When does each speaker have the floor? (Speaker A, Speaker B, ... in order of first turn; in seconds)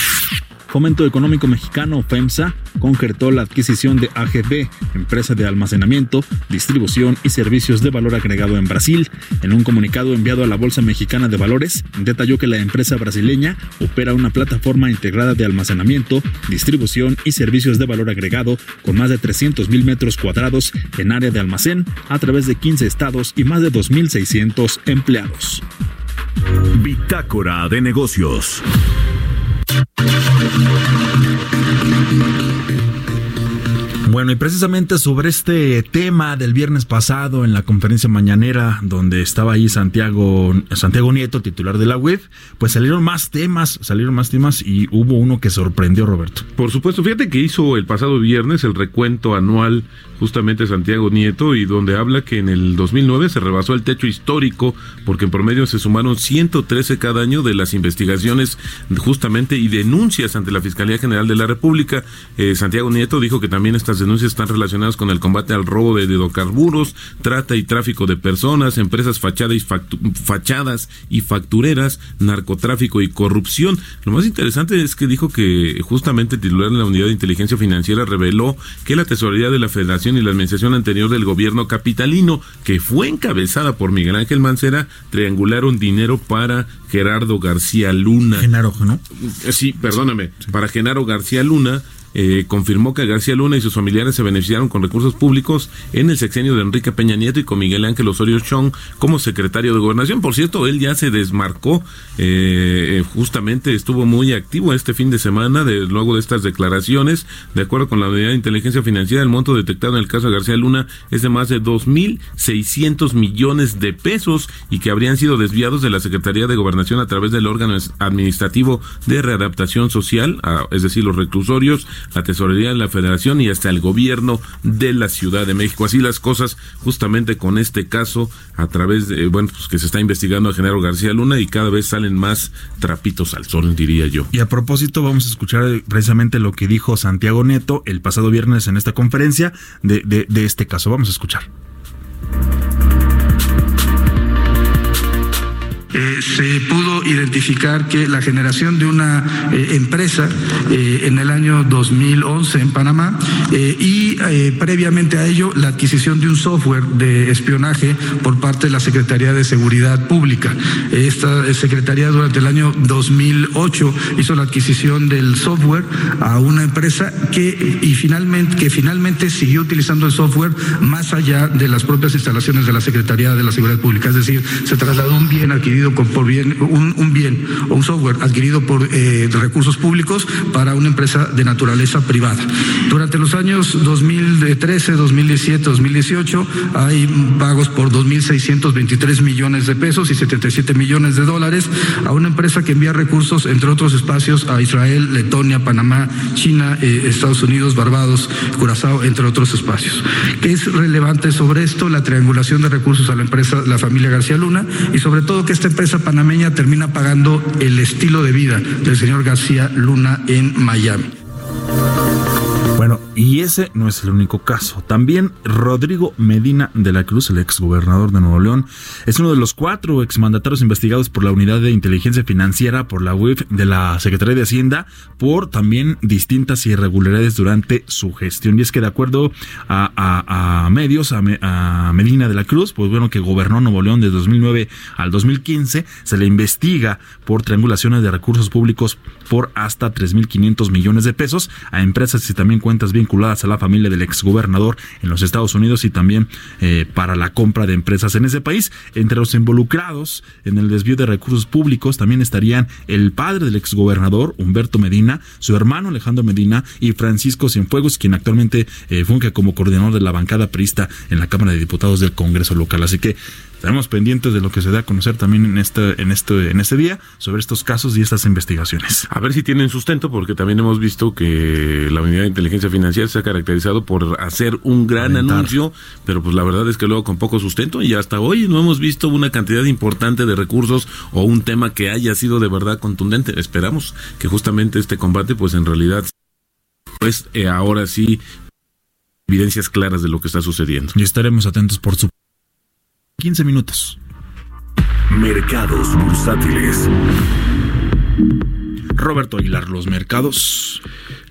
Speaker A: 0.7-25.6, 34.0-46.5, 88.3-89.0, 134.3-141.5, 212.7-269.1, 275.0-275.5, 290.9-292.1, 293.2-294.0, 298.9-300.8
Speaker B: 26.8-28.6, 295.1-296.9
Speaker C: 46.6-88.5, 89.2-134.3, 269.1-286.1, 287.0-288.2, 289.3-290.9
Speaker D: 145.9-211.1